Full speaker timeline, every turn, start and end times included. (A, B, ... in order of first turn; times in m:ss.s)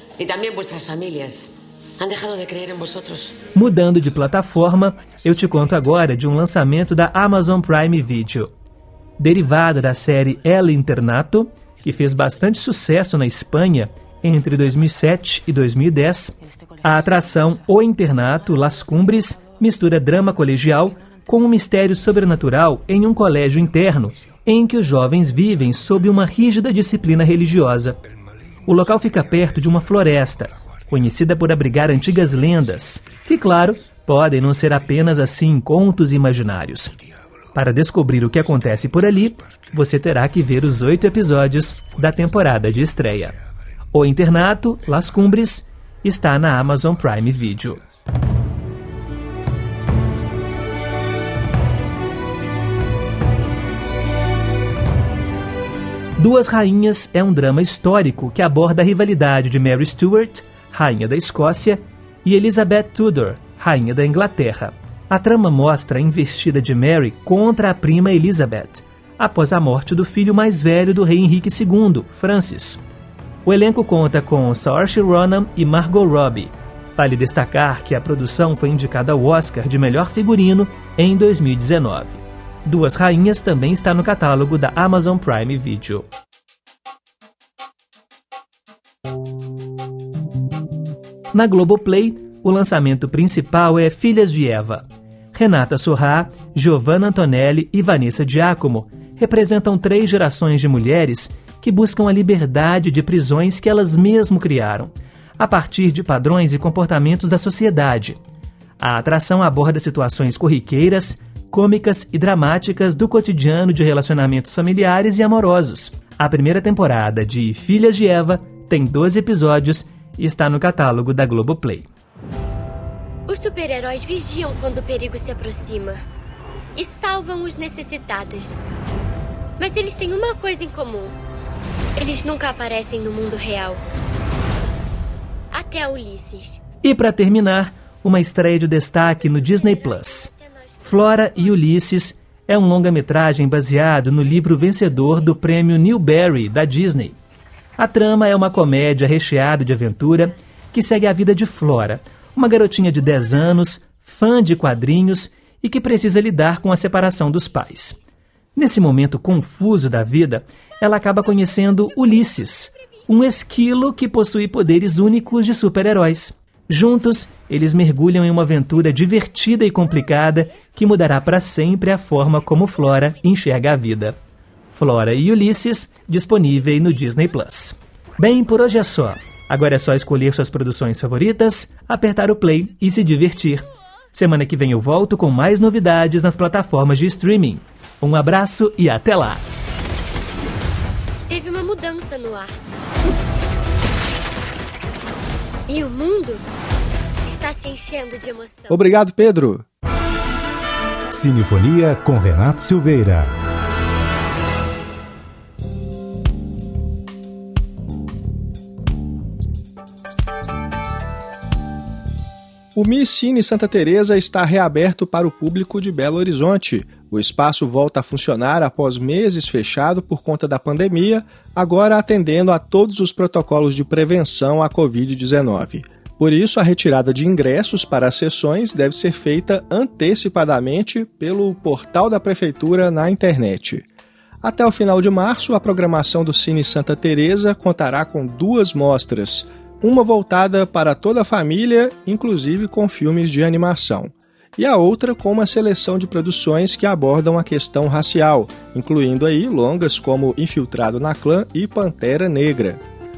0:00.2-0:03.4 A
0:03.5-0:08.5 B
0:09.2-0:28.0 B
0:28.6-0:36.9 B
0:37.5-0:43.4 B
0:43.9-0:47.8 B
0:56.2-1:12.8 B
1:13.4-1:26.0 B
1:31.3-1:48.2 B
1:48.8-2:01.9 B
2:03.3-2:06.0 C
2:06.7-2:08.6 C
2:09.6-2:11.1 C
2:12.0-2:13.8 C
2:15.5-2:16.6 C
2:16.8-2:20.3 B
2:19.2-2:21.0 C
2:20.8-2:27.2 B
2:27.8-2:38.0 B
2:38.6-2:54.2 B
2:54.7-3:09.4 B
3:11.3-3:12.5 C
3:15.7-3:16.4 C
3:17.2-3:18.7 C
3:18.7-3:19.6 D
3:21.1-3:23.3 E
3:32.7-3:53.8 D
3:54.4-4:12.8 D